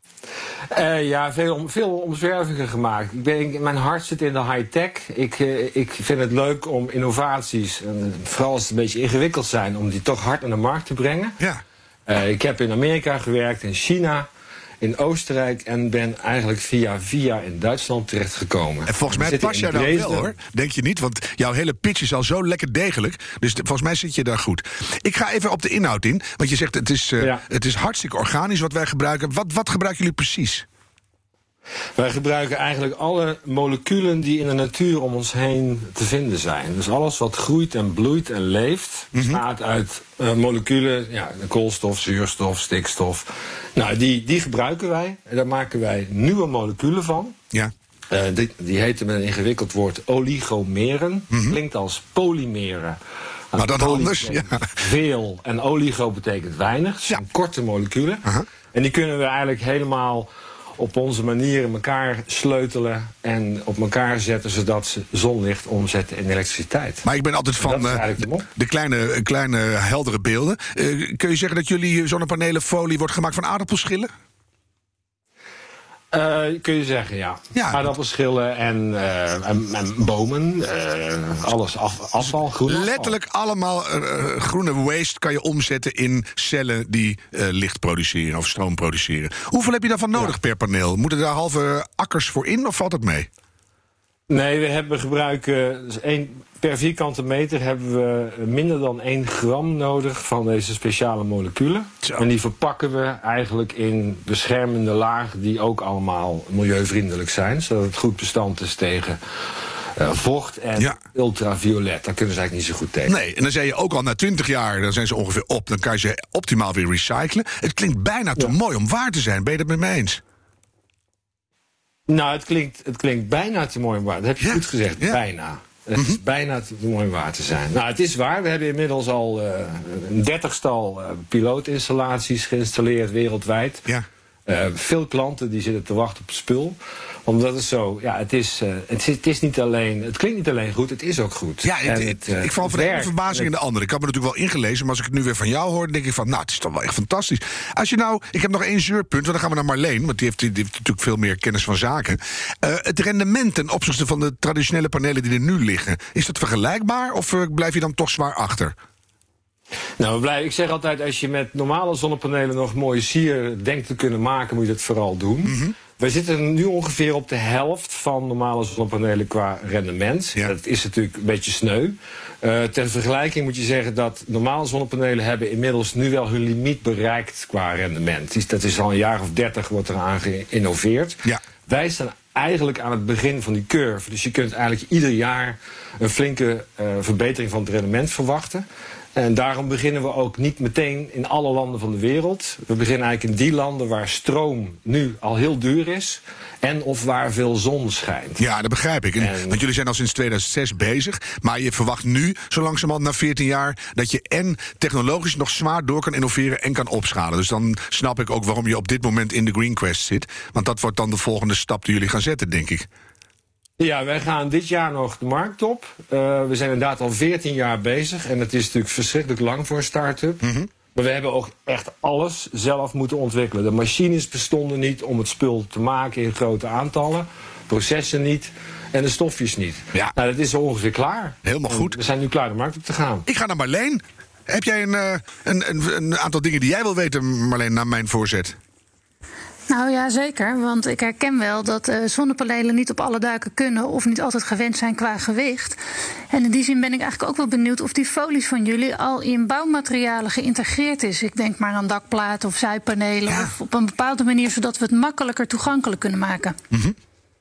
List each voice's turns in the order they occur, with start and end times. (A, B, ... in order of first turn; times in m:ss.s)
0:00.7-0:11.4 A
0:12.1-0:14.3 A
0:14.8-0:20.4 A
0:18.9-0:30.7 B
0:32.0-0:47.4 A
0:39.1-0:39.4 B
0:48.1-0:53.0 A
0:51.3-0:51.6 B
0:53.5-1:07.1 A
0:53.6-0:54.7 B
1:07.0-1:14.1 B
1:07.6-1:08.5 A
1:16.1-1:23.1 A
1:17.6-1:17.9 B
1:22.7-1:33.3 B
1:34.3-1:49.2 A
1:50.0-1:53.2 A
1:53.1-2:00.2 B
2:02.1-2:13.9 A
2:04.4-2:05.2 B
2:14.5-2:23.5 A
2:21.6-2:38.7 B
2:40.0-3:18.4 A
2:45.4-2:45.7 B
3:18.4-3:32.9 B
3:19.2-3:19.6 A
3:33.8-3:53.3 A
3:51.4-3:52.0 B
3:53.3-3:58.6 B
3:59.7-4:05.8 C
4:06.3-4:16.6 C
4:13.3-4:13.5 B